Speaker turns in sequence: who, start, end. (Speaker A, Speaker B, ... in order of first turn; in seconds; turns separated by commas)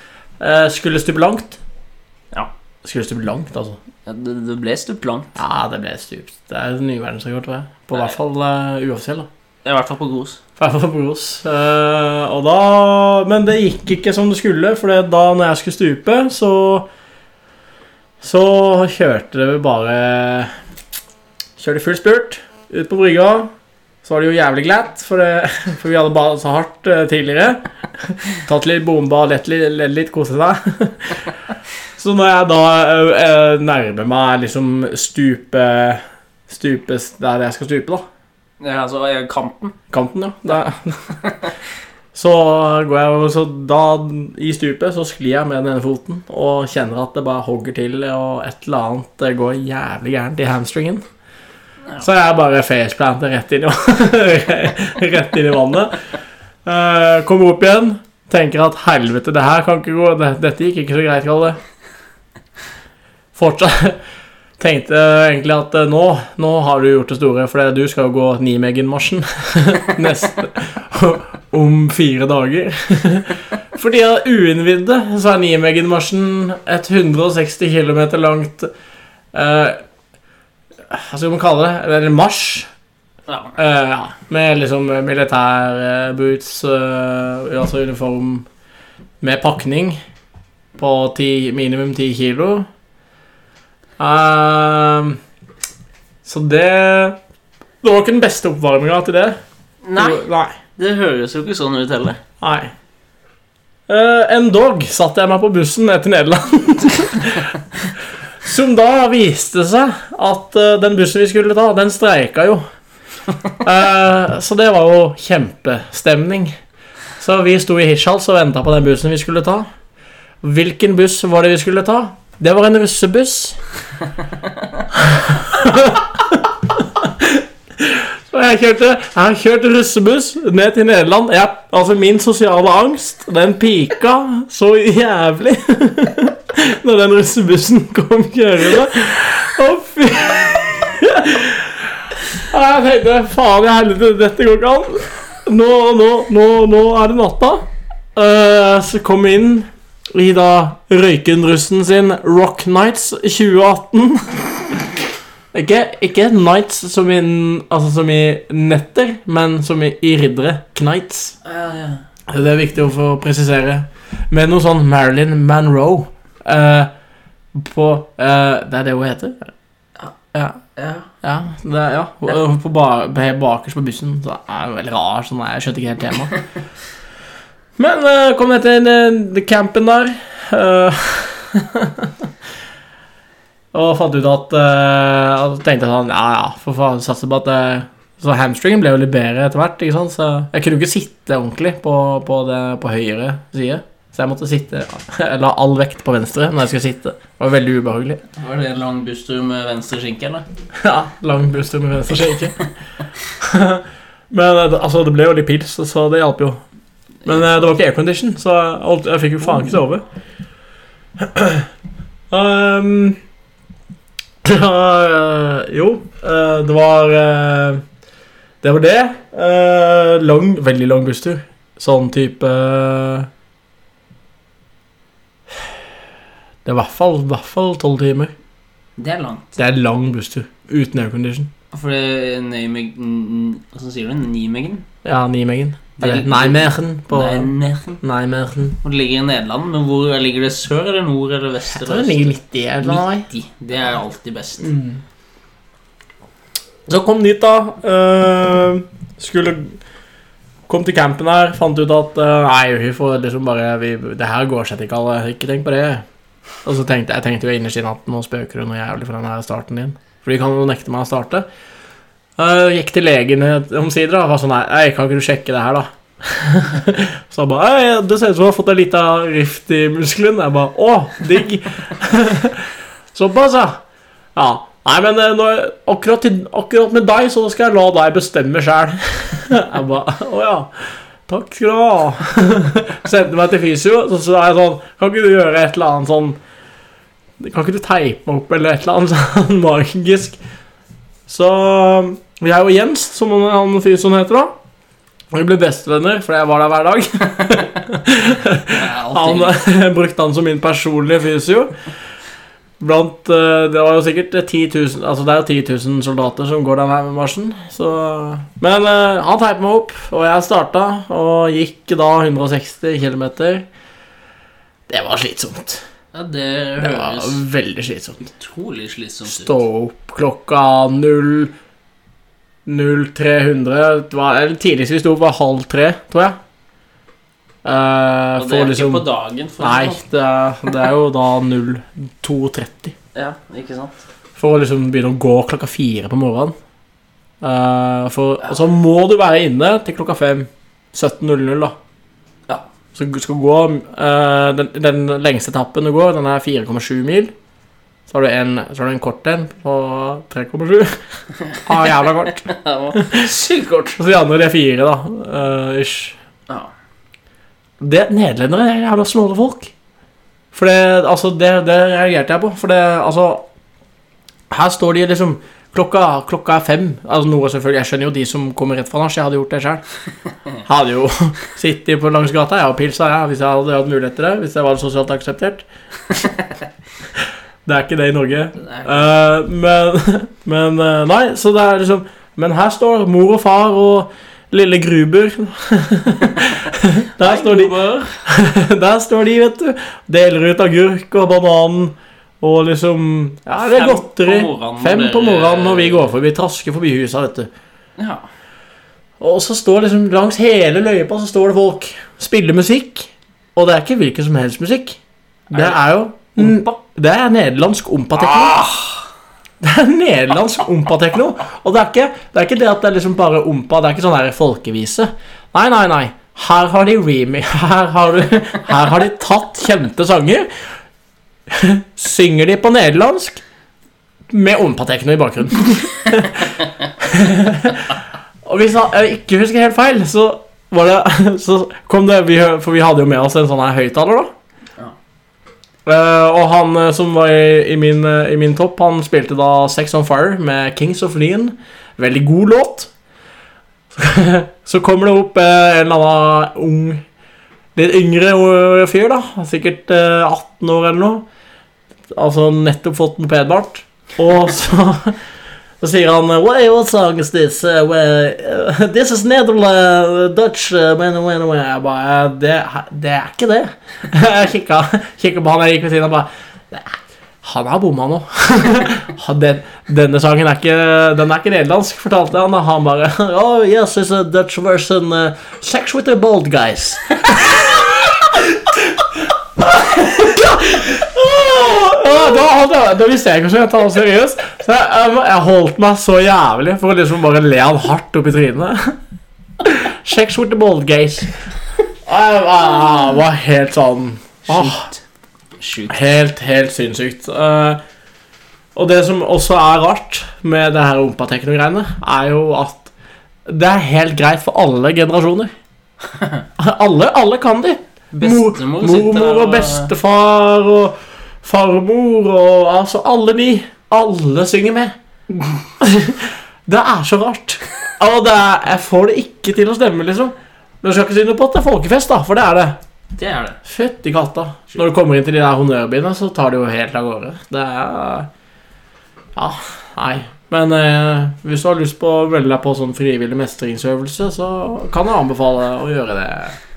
Speaker A: 0.4-1.6, Speaker A: 2.8-3.8, Speaker B: 4.1-5.3, Speaker A: 5.4-9.3, Speaker B: 9.7-10.4, Speaker A: 10.6-16.9, Speaker A: 18.2-20.5, Speaker A: 21.6-23.5, Speaker A: 24.0-31.3, Speaker A: 32.0-38.0, Speaker B: 38.6-39.8, Speaker A: 39.9-41.2, Speaker B: 41.2-41.5, Speaker A: 42.1-51.0, Speaker A: 52.0-56.1, Speaker A: 56.6-61.6, Speaker A: 63.4-64.0, Speaker A: 64.6-78.7, Speaker A: 79.3-79.8, Speaker A: 80.9-82.7, Speaker B: 83.3-83.6, Speaker A: 83.6-88.5, Speaker A: 89.2-90.0, Speaker A: 90.8-92.7, Speaker A: 94.0-95.2, Speaker A: 96.2-97.2, Speaker A: 97.8-99.4, Speaker B: 99.8-100.2, Speaker A: 100.0-100.6, Speaker B: 100.8-102.2, Speaker A: 102.4-102.7, Speaker A: 103.9-107.6, Speaker A: 108.4-112.6, Speaker A: 113.6-116.6, Speaker A: 117.2-119.7, Speaker A: 120.4-123.6, Speaker A: 124.9-154.9, Speaker A: 155.5-161.4, Speaker B: 161.4-162.0, Speaker A: 162.3-166.9, Speaker A: 167.5-169.5, Speaker A: 170.3-170.6, Speaker B: 170.8-171.1, Speaker A: 171.2-176.3, Speaker A: 177.8-182.3, Speaker A: 183.7-198.2, Speaker B: 198.4-200.4, Speaker A: 200.8-202.6, Speaker A: 203.4-206.6, Speaker A: 207.2-210.0, Speaker A: 211.2-211.7, Speaker A: 212.3-213.2, Speaker A: 214.4-217.8, Speaker A: 218.6-223.3, Speaker A: 226.7-228.3, Speaker B: 229.0-229.6, Speaker A: 229.6-231.5, Speaker B: 231.7-234.9, Speaker A: 235.0-237.5, Speaker B: 236.0-238.0, Speaker A: 238.0-238.8, Speaker B: 238.8-244.7, Speaker A: 241.7-243.3, Speaker A: 244.6-245.0, Speaker A: 246.9-249.8, Speaker A: 250.7-256.0, Speaker A: 256.6-261.5, Speaker A: 262.4-273.8, Speaker A: 274.4-286.4, Speaker A: 287.4-290.4, Speaker A: 291.3-294.6, Speaker A: 295.3-301.8, Speaker B: 298.7-299.6, Speaker A: 302.8-313.7, Speaker A: 314.9-315.8, Speaker B: 316.1-317.4, Speaker A: 316.8-318.3, Speaker B: 318.4-319.6, Speaker A: 319.3-321.5, Speaker A: 322.7-326.4, Speaker A: 327.6-329.1, Speaker B: 328.4-330.0, Speaker A: 329.6-332.9, Speaker B: 333.1-334.0, Speaker A: 334.4-336.6, Speaker A: 337.4-341.7, Speaker A: 342.9-347.3, Speaker A: 348.1-351.0, Speaker A: 351.6-353.3, Speaker B: 352.4-354.0, Speaker A: 354.0-356.2, Speaker A: 357.8-359.7, Speaker A: 360.5-363.5, Speaker A: 364.5-369.8, Speaker A: 370.7-375.7, Speaker A: 377.7-397.5, Speaker B: 378.6-379.1, Speaker B: 387.2-388.2, Speaker B: 393.6-396.1, Speaker B: 398.0-398.2, Speaker A: 399.2-405.0, Speaker A: 405.5-408.6, Speaker B: 405.5-405.8, Speaker B: 406.4-406.8, Speaker B: 408.2-409.0, Speaker A: 409.6-420.5, Speaker A: 421.5-423.4, Speaker A: 424.3-434.3, Speaker A: 435.9-442.9, Speaker A: 443.9-447.0, Speaker A: 447.8-451.3, Speaker A: 452.1-455.2, Speaker A: 455.8-489.0, Speaker A: 489.6-491.3, Speaker A: 492.1-494.9, Speaker B: 494.5-495.0, Speaker B: 495.6-496.0, Speaker A: 495.9-497.8, Speaker A: 498.8-502.9, Speaker A: 503.5-505.5, Speaker B: 506.1-506.4, Speaker A: 506.6-514.9, Speaker B: 508.1-509.9, Speaker A: 515.8-522.8, Speaker B: 523.2-523.6, Speaker A: 523.6-528.3, Speaker A: 529.4-536.6